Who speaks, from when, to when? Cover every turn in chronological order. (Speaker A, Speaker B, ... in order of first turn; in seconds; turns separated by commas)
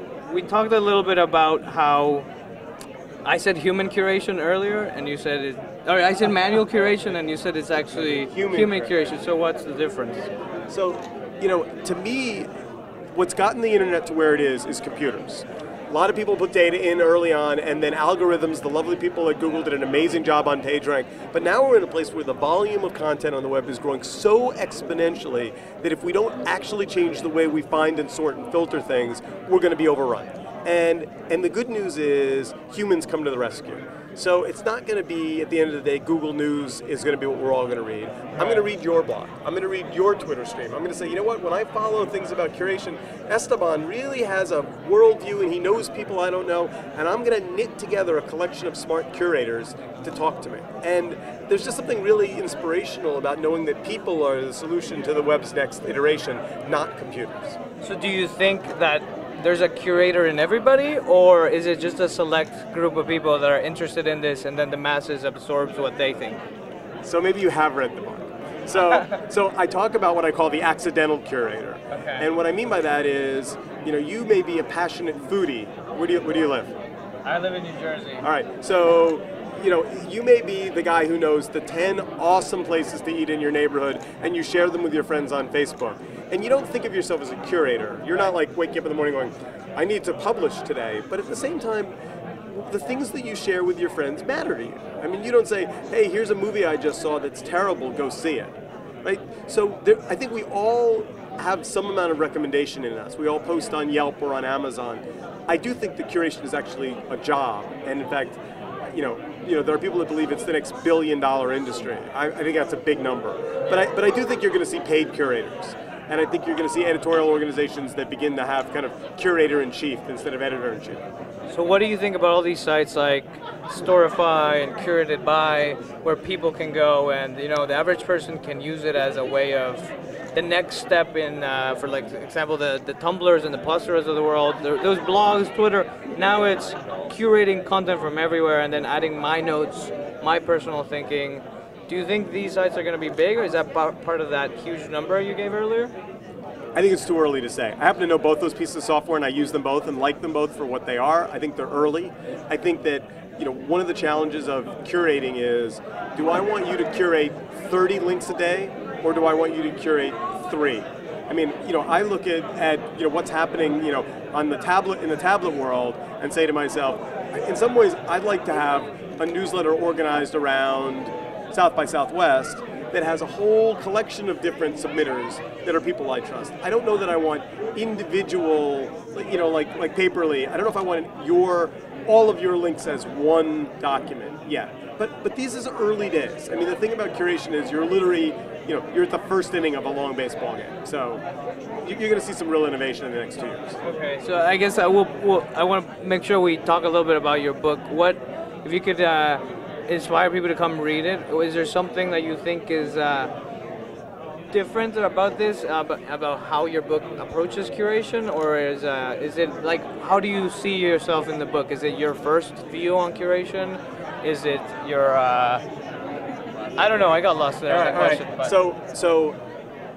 Speaker A: 0.2-2.3, Speaker A: 3.2-10.3, Speaker B: 8.1-8.9, Speaker B: 10.7-12.5, Speaker B: 13.1-57.6, Speaker A: 38.4-38.7, Speaker A: 57.8-66.4, Speaker B: 67.0-76.7, Speaker A: 68.8-69.1, Speaker A: 71.9-72.3, Speaker A: 77.2-78.2, Speaker B: 78.2-91.9, Speaker B: 92.5-108.4, Speaker B: 108.9-121.0, Speaker A: 121.5-145.9, Speaker B: 146.8-191.2, Speaker B: 191.8-193.8, Speaker A: 193.8-203.3, Speaker A: 204.5-215.6, Speaker A: 216.8-218.6, Speaker B: 217.7-219.4